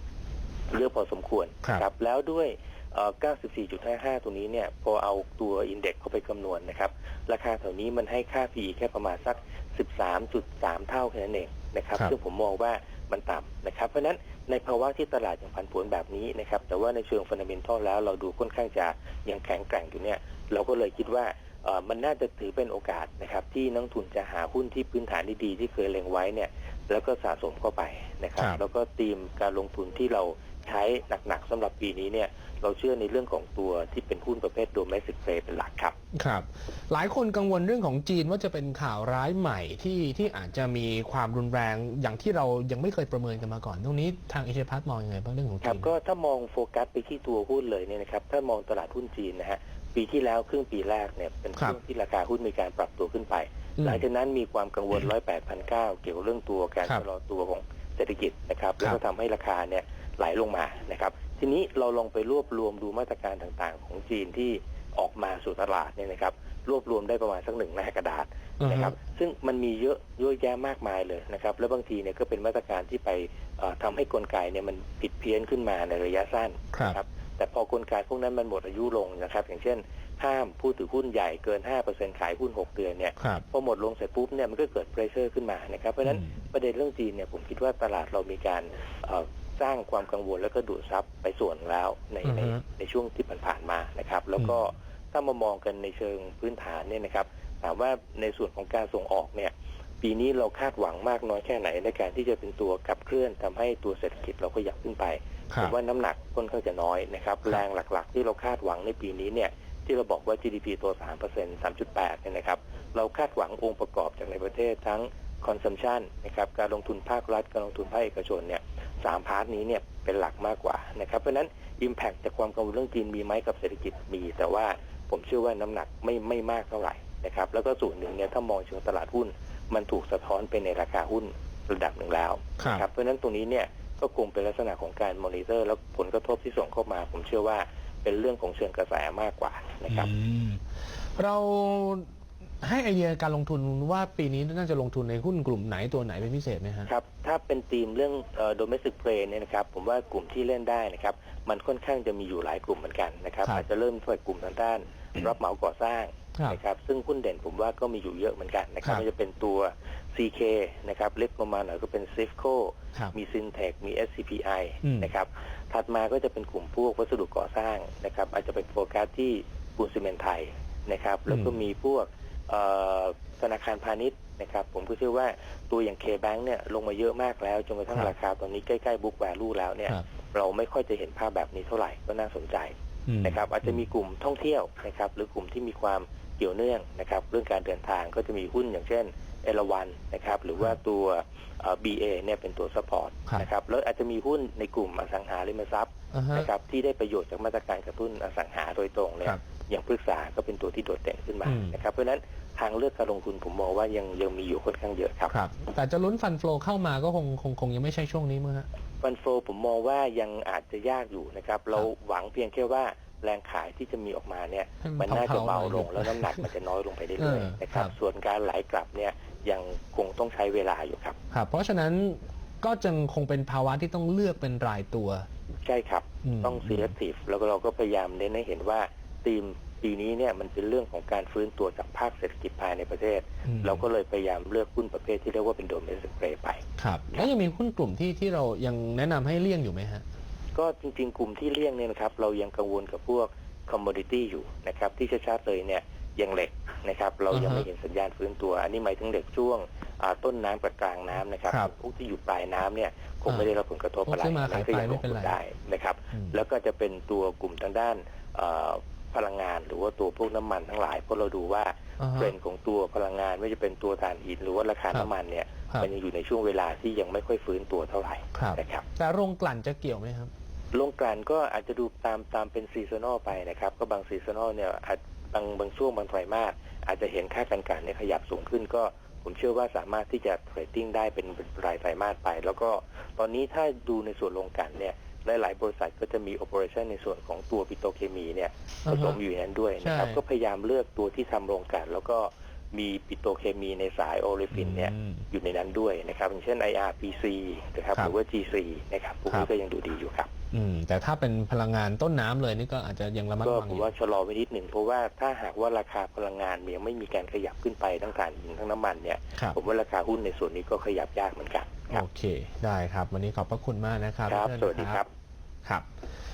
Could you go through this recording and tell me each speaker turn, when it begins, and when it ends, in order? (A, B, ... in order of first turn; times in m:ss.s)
0:00.7-0:35.9 A
0:36.1-0:45.9 B
0:45.6-2:20.1 A
0:53.8-0:54.0 B
1:08.6-1:09.0 B
1:26.0-1:26.3 B
1:32.2-1:32.6 B
2:12.6-2:12.8 B
2:19.9-2:20.6 B
2:21.2-2:22.1 B
2:22.6-2:26.9 B
2:26.9-3:25.4 A
2:44.8-2:45.1 B
3:03.1-3:03.4 B
3:16.1-3:16.5 B
3:21.4-3:21.8 B
3:25.3-3:28.7 B
3:29.0-3:41.2 A
3:34.8-3:36.5 B
3:37.2-3:37.9 B
3:41.3-3:45.3 B
3:45.6-3:56.6 A
3:46.2-3:46.9 B
3:53.4-3:53.8 B
3:56.8-4:00.0 B
4:00.6-4:28.8 A
4:07.3-4:07.7 B
4:14.1-4:15.4 B
4:16.1-4:16.4 B
4:22.0-4:22.4 B
4:28.3-4:30.3 B
4:30.7-5:00.3 A
4:48.9-4:49.2 B
4:49.8-4:50.2 B
4:54.5-4:55.3 B
5:00.5-5:03.9 B
5:03.4-5:12.0 A
5:11.9-5:15.0 B
5:14.3-5:15.1 A